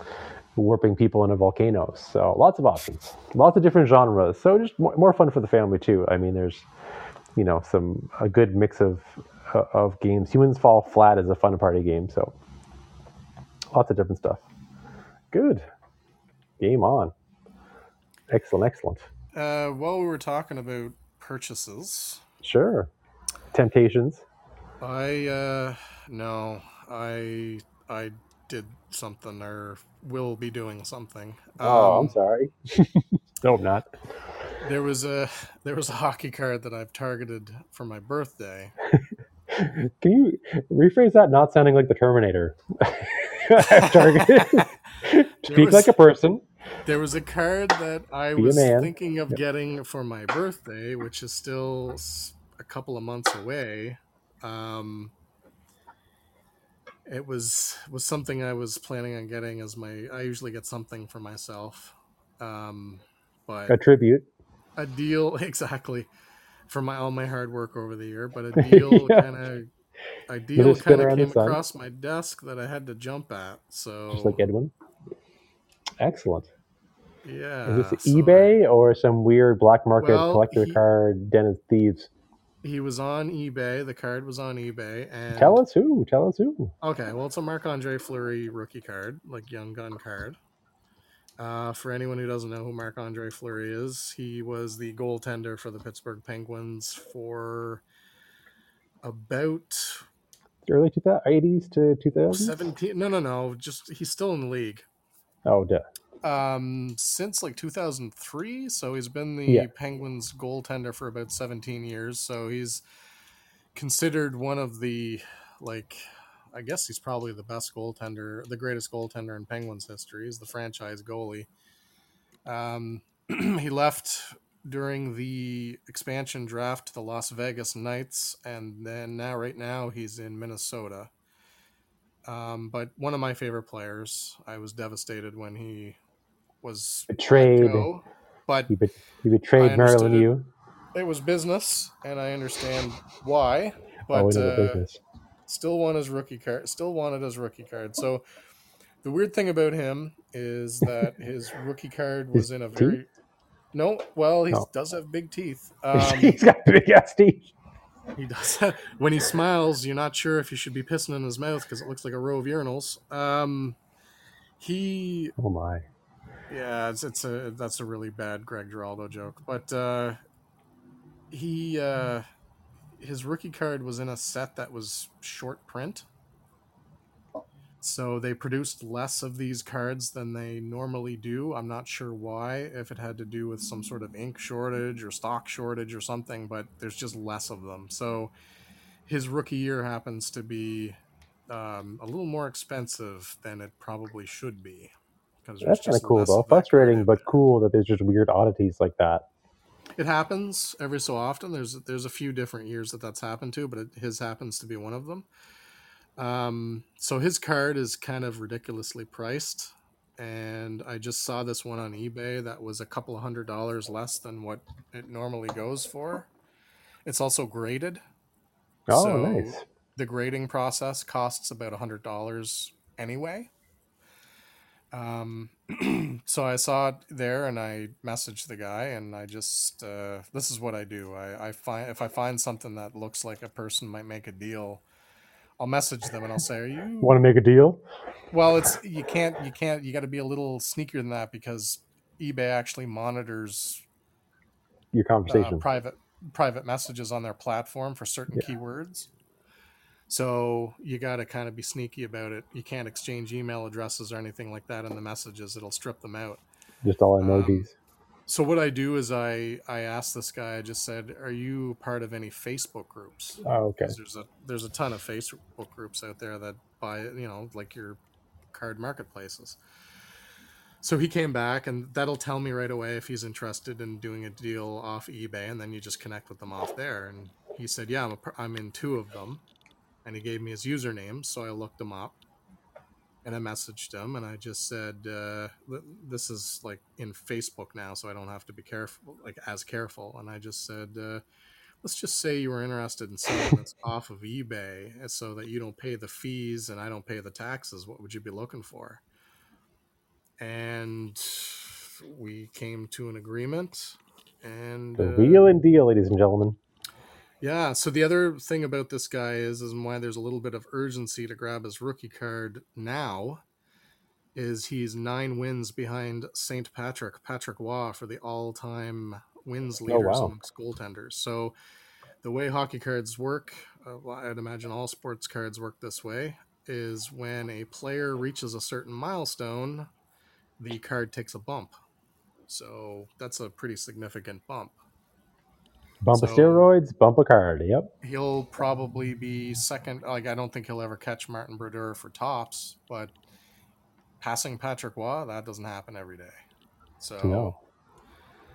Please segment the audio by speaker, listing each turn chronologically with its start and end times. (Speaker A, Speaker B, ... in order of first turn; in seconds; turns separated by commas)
Speaker A: 0.6-6.6, Speaker A: 7.3-12.3, Speaker A: 13.7-14.4, Speaker A: 15.3-15.6, Speaker A: 16.6-17.1, Speaker A: 18.3-19.1, Speaker B: 19.3-22.2, Speaker A: 22.4-22.9, Speaker A: 23.5-24.2, Speaker B: 24.8-32.1, Speaker A: 31.6-33.9, Speaker B: 34.6-38.7, Speaker A: 38.9-46.4, Speaker B: 43.6-44.7, Speaker B: 45.4-45.9, Speaker B: 46.8-55.1, Speaker A: 48.4-48.9, Speaker B: 57.0-63.8, Speaker A: 63.7-64.2, Speaker B: 64.8-66.1, Speaker B: 66.7-69.7, Speaker A: 68.5-69.2, Speaker B: 70.3-74.4, Speaker A: 70.5-71.6, Speaker A: 74.1-74.7, Speaker A: 76.0-76.5, Speaker B: 77.2-78.6, Speaker A: 77.7-82.1, Speaker B: 80.0-80.8, Speaker B: 82.6-85.6, Speaker A: 85.3-86.7, Speaker B: 86.8-90.4, Speaker B: 91.4-97.8, Speaker B: 99.0-100.0, Speaker A: 100.7-102.7, Speaker B: 102.3-104.8, Speaker A: 105.5-105.8, Speaker B: 106.2-112.8, Speaker B: 113.7-116.0, Speaker B: 116.5-121.5, Speaker B: 122.4-131.1, Speaker B: 132.2-136.0, Speaker B: 136.6-138.7, Speaker A: 137.1-137.9, Speaker A: 138.7-140.5, Speaker B: 139.6-140.3, Speaker B: 140.9-144.8, Speaker A: 144.1-145.0, Speaker B: 145.5-148.2, Speaker B: 149.0-153.1, Speaker A: 152.3-153.0, Speaker B: 153.7-156.4, Speaker A: 155.9-157.5, Speaker B: 158.1-163.8, Speaker B: 164.6-165.3, Speaker A: 165.4-165.8, Speaker B: 166.5-170.2, Speaker B: 171.3-172.2, Speaker B: 173.0-176.0, Speaker B: 177.8-188.3, Speaker B: 189.1-190.9, Speaker B: 191.5-194.9, Speaker B: 195.4-197.2, Speaker A: 195.6-199.2, Speaker B: 200.0-205.2, Speaker B: 206.2-216.3, Speaker B: 217.1-218.0, Speaker A: 218.9-219.6, Speaker B: 218.9-223.5, Speaker B: 224.9-234.8, Speaker B: 235.6-237.2, Speaker A: 237.0-237.8, Speaker B: 238.3-243.8, Speaker A: 244.9-245.6, Speaker B: 245.3-249.1, Speaker B: 250.1-256.4, Speaker A: 256.8-257.7, Speaker B: 257.2-257.7, Speaker B: 258.3-268.0, Speaker A: 263.4-263.9, Speaker B: 268.5-269.6, Speaker B: 270.8-279.4, Speaker B: 280.0-282.1, Speaker B: 283.2-291.2, Speaker B: 291.8-299.0, Speaker B: 300.4-305.5, Speaker A: 305.0-306.6, Speaker B: 307.4-313.4, Speaker B: 314.3-321.5, Speaker A: 319.9-320.3, Speaker B: 322.2-329.9, Speaker B: 330.6-331.8, Speaker B: 332.5-334.8, Speaker A: 336.0-337.9, Speaker B: 336.1-336.7, Speaker B: 338.0-343.1, Speaker B: 344.2-346.4, Speaker B: 347.0-347.5, Speaker A: 347.2-347.6